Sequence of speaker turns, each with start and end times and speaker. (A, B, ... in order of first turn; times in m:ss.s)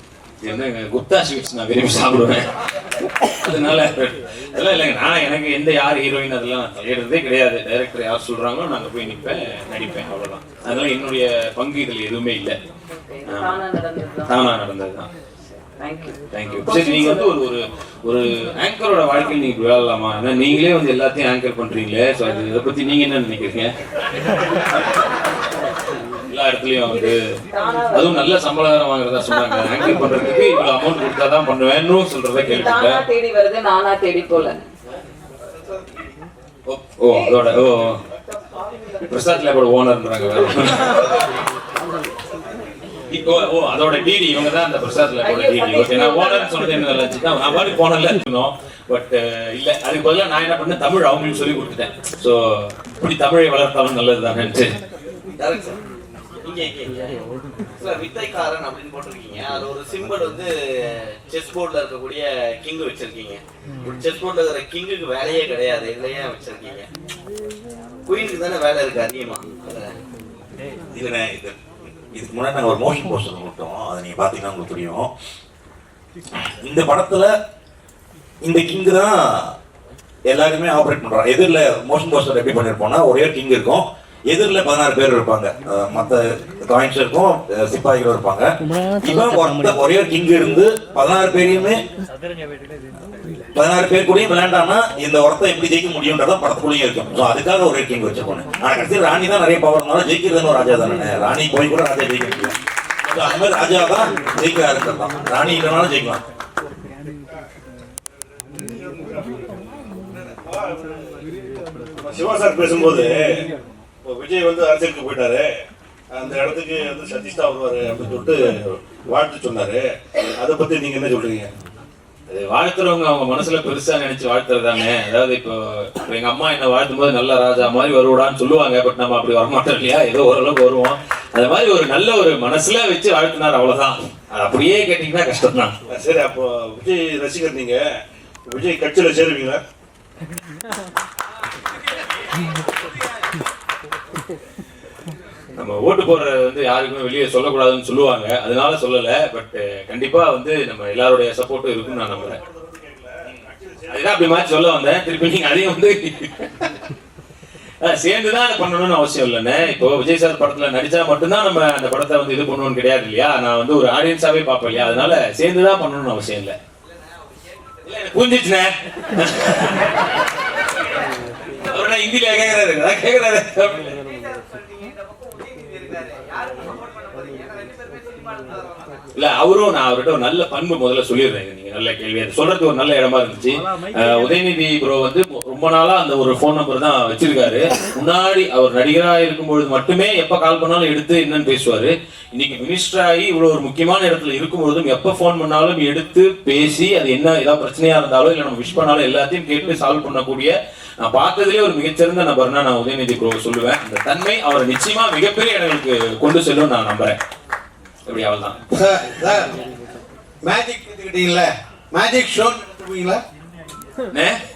0:00.4-0:02.4 A
0:03.2-0:12.6 A
0:13.1-0:14.3 B
0:13.3-0:13.6 A
0:14.3-0:15.1 A
0:15.8-0:17.3 B
0:16.3-0:23.7 A
0:26.3-0:27.2 A
0:26.8-0:28.3 B
0:27.9-0:33.0 A
0:32.5-0:34.6 B
0:36.7-0:38.0 A
0:37.1-0:37.4 B
0:38.1-0:39.0 B
0:39.1-0:41.0 A
0:43.1-0:54.7 A
0:45.2-0:46.6 B
0:55.4-0:55.8 C
0:56.4-0:57.2 C
0:57.8-1:06.9 C
1:08.1-1:09.9 C
1:10.9-1:11.6 D
1:12.2-1:15.1 D
1:16.6-1:17.3 D
1:18.4-1:19.5 D
1:20.3-1:28.5 D
1:29.0-1:31.8 D
1:33.6-1:42.5 D
1:43.1-1:46.2 D
1:48.6-1:49.3 E
1:50.2-1:51.2 E
1:52.0-1:53.4 E
1:54.0-1:55.5 E
1:56.1-1:59.8 E
2:00.4-2:01.5 E
2:02.3-2:15.7 A
2:15.9-2:17.8 E
2:18.5-2:19.6 E
2:25.6-2:32.4 A
2:31.8-2:34.2 E
2:33.9-2:36.7 A
2:37.8-2:46.6 A
2:47.8-2:49.9 A
2:51.6-2:53.9 A
2:54.3-2:58.8 C
2:59.2-3:27.2 A
3:28.1-3:28.6 A
3:28.7-3:29.5 F
3:30.4-3:33.2 F
3:34.1-3:34.4 A